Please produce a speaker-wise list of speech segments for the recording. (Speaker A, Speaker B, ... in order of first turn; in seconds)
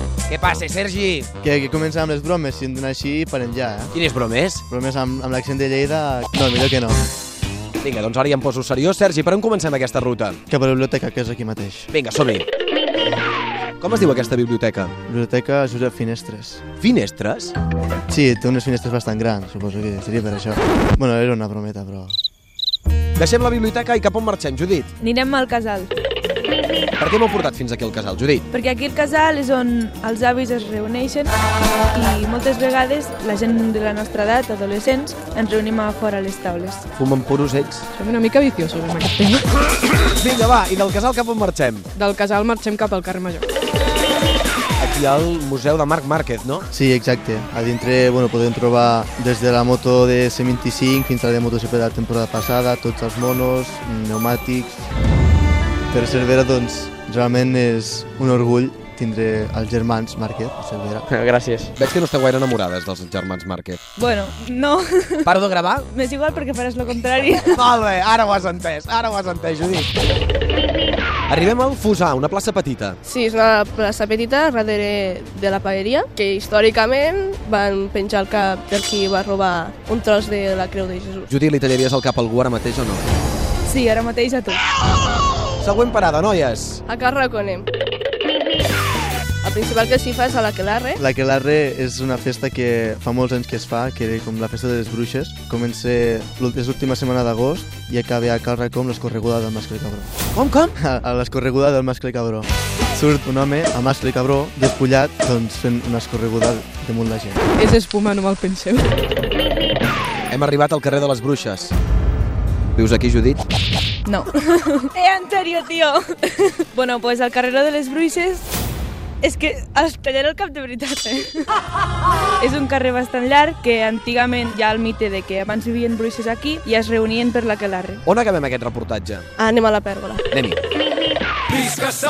Speaker A: 0.3-1.3, 3.9-4.6, 7.8-10.4, 11.9-12.5, 13.8-14.9, 16.8-17.5, 23.2-24.9, 27.0-28.5, 36.9-37.9, 39.9-41.9, 44.8-46.7, 61.1-63.8, 65.2-65.9, 67.5-69.9, 71.3-73.0, 81.3-83.1, 85.6-86.8, 100.3-100.7, 110.3-111.7, 112.8-113.4, 128.1-129.3, 130.3-130.6
Speaker B: 1.4-4.0, 4.7-7.0, 10.5-11.9, 15.1-16.7, 18.1-22.2, 46.7-54.9, 55.9-61.1, 91.0-100.1, 100.8-107.4
Speaker C: 25.0-25.9, 28.5-31.3, 31.9-36.9, 64.0-67.6, 83.7-84.6, 114.1-118.5, 119.2-121.5, 122.4-128.0
Speaker D: 38.0-39.5, 42.0-43.5, 107.6-108.9
Speaker E: 73.0-81.3, 86.9-87.7, 89.4-91.0, 129.4-130.3